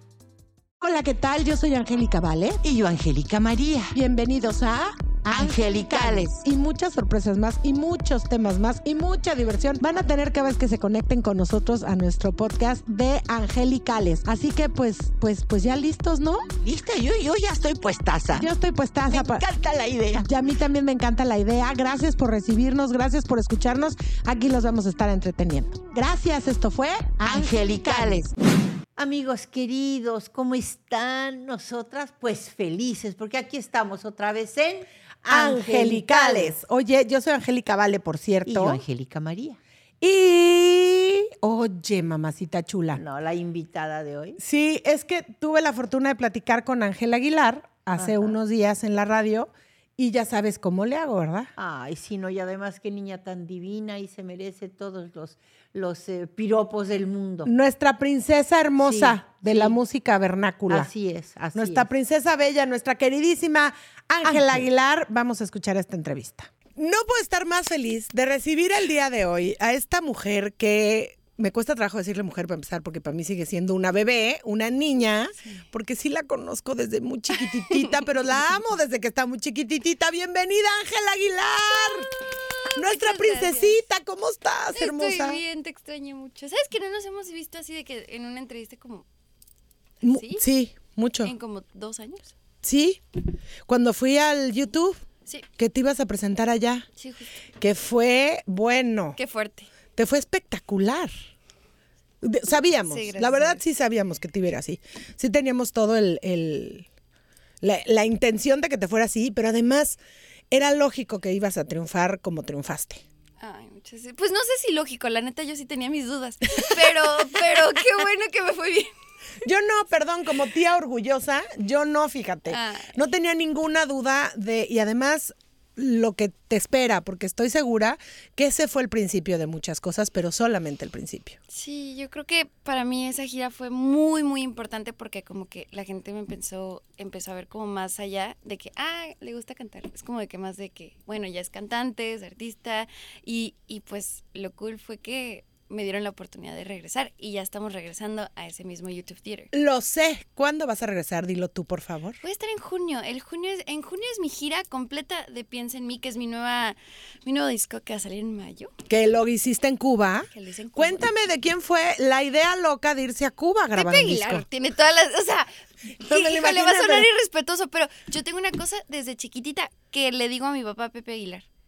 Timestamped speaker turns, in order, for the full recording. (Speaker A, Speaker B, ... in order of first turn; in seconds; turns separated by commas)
Speaker A: 0.8-2.6, Speaker B: 2.6-3.9, Speaker A: 3.9-16.5, Speaker B: 5.3-6.3, Speaker C: 5.5-6.2, Speaker B: 16.6-18.5, Speaker A: 18.3-19.5, Speaker B: 19.1-20.2, Speaker A: 20.1-28.3, Speaker B: 27.2-28.3, Speaker C: 28.9-36.6, Speaker A: 35.3-38.8, Speaker C: 38.5-39.6, Speaker A: 40.0-43.0, Speaker C: 42.9-44.4, Speaker A: 44.4-51.5, Speaker C: 48.0-48.3, Speaker C: 51.6-57.5, Speaker A: 57.4-60.9, Speaker C: 58.8-59.8, Speaker C: 60.7-61.9, Speaker A: 61.5-82.1, Speaker C: 64.2-64.6, Speaker D: 77.4-77.9, Speaker D: 82.7-83.8, Speaker A: 82.7-85.4, Speaker D: 84.7-89.0, Speaker D: 90.0-90.4, Speaker A: 90.0-91.3, Speaker D: 91.2-92.3, Speaker A: 92.6-93.0, Speaker A: 93.7-95.0, Speaker A: 95.6-96.8, Speaker D: 97.0-97.4, Speaker A: 97.6-99.2, Speaker D: 99.2-99.7, Speaker A: 99.9-101.1, Speaker A: 102.2-106.9, Speaker D: 102.8-103.6, Speaker A: 107.6-110.0, Speaker A: 110.5-113.0, Speaker D: 113.4-118.9, Speaker A: 119.4-131.4, Speaker D: 122.5-123.0, Speaker D: 131.5-149.5, Speaker A: 149.5-152.2, Speaker D: 152.2-158.7, Speaker A: 158.9-164.4, Speaker D: 160.3-161.1, Speaker D: 163.7-171.4, Speaker A: 166.0-167.1